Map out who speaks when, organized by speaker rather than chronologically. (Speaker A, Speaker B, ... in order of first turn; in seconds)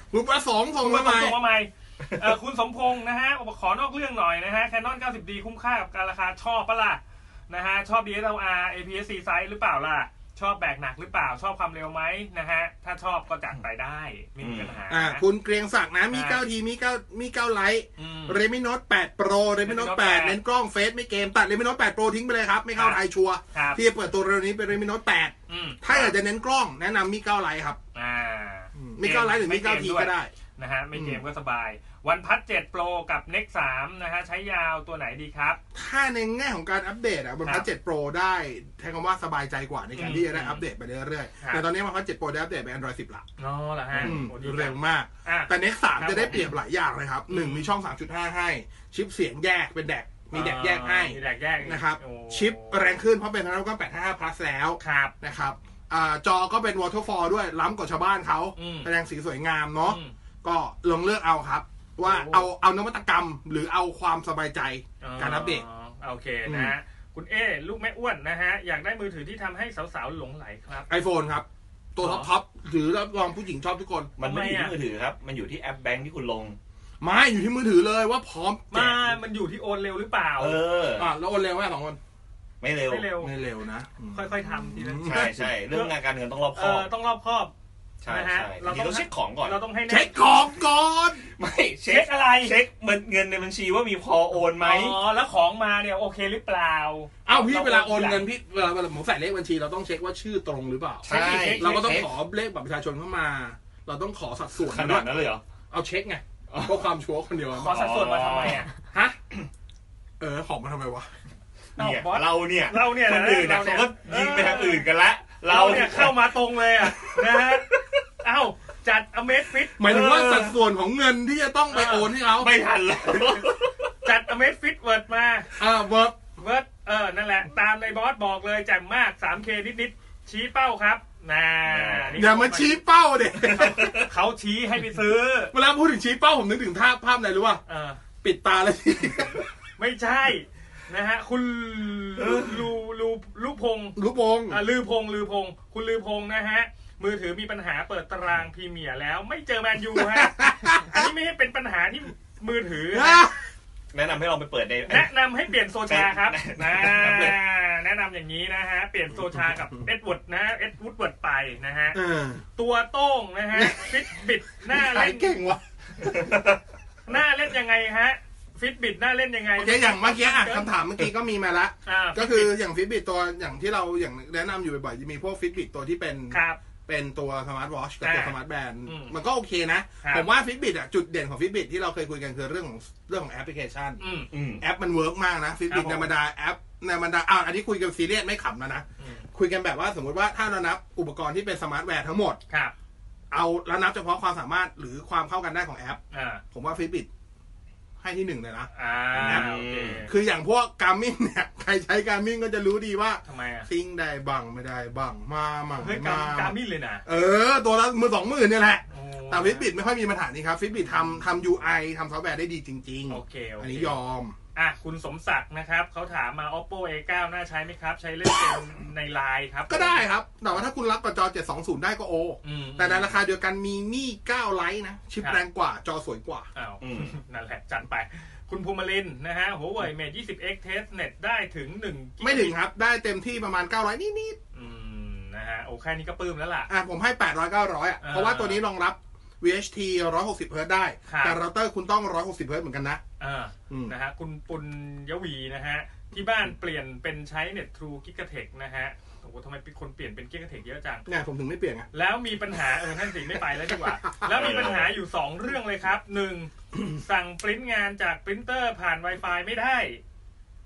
Speaker A: 0.1-1.4, 14.9-27.8, 28.8-30.3, 30.9-31.2, 35.7-43.2, 44.0-65.6, 66.5-66.8, 70.9-74.1, 77.0-79.1, 81.0-82.0, 83.2-85.5, 89.9-91.2, 97.3-101.1, 101.6-105.1, 105.7-107.9, 108.9-109.2, 110.2-111.1, 119.8-122.5, 125.6-126.2, 132.1-134.1, 135.5-137.6, 138.2-139.4, 144.0-144.6, 150.0-151.1, 152.9-153.4, 161.9-162.4, 163.5-163.9, 164.7-166.3, 169.6-184.0, 184.6-192.4, 193.3-196.0, 196.5-197.1, 198.0-198.7, 199.2-214.3, 219.7-226.5, 232.2-234.4, 236.7-243.0, 243.7-243.9, 251.1-251.9
Speaker B: 0.8-15.2, 16.1-16.4, 18.0-18.4, 19.6-20.4, 22.8-23.0, 23.5-23.8, 25.5-26.1, 27.9-35.6, 40.0-40.6, 41.4-41.6, 43.4-46.5, 47.3-47.7, 50.3-52.9, 54.8-55.1, 58.6-58.9, 59.8-60.1, 62.0-62.5, 65.0-70.9, 72.0-72.3, 74.2-74.8, 78.7-80.6, 82.9-83.3, 84.1-85.9, 86.5-87.5, 88.1-90.2, 91.9-92.6, 94.6-98.3, 101.1-102.0, 107.6-108.7, 111.8-114.9, 115.5-117.7, 118.2-119.8, 121.7-122.1, 124.0-125.5, 126.4-132.8, 133.4-135.5, 137.7-138.0, 139.8-144.0, 144.5-153.2, 154.9-162.0, 162.6-165.4, 167.1-170.7, 171.8-172.5, 176.3-176.6, 178.0-179.2, 180.0-180.3, 184.0-184.3, 185.7-186.1, 189.0-189.2, 196.1-196.4, 198.7-200.1, 203.2-203.7, 205.8-207.0, 208.9-209.7, 213.1-213.9, 214.6-220.0, 222.4-223.1, 226.6-232.6, 234.5-236.7, 238.0-238.6, 241.1-241.4, 243.2-251.1, 251.9-260.0
Speaker C: 14.4-14.8, 74.2-76.6, 80.4-81.1, 82.6-83.1, 85.0-86.9, 88.0-89.6, 91.4-95.0, 101.0-102.1, 104.6-105.4, 106.5-106.8, 107.6-108.7, 111.8-118.0, 119.8-120.6, 122.3-123.9, 131.7-132.2, 133.6-134.1, 153.9-155.1, 155.9-157.4, 184.3-184.6, 199.1-200.0, 226.8-227.2, 254.3-254.9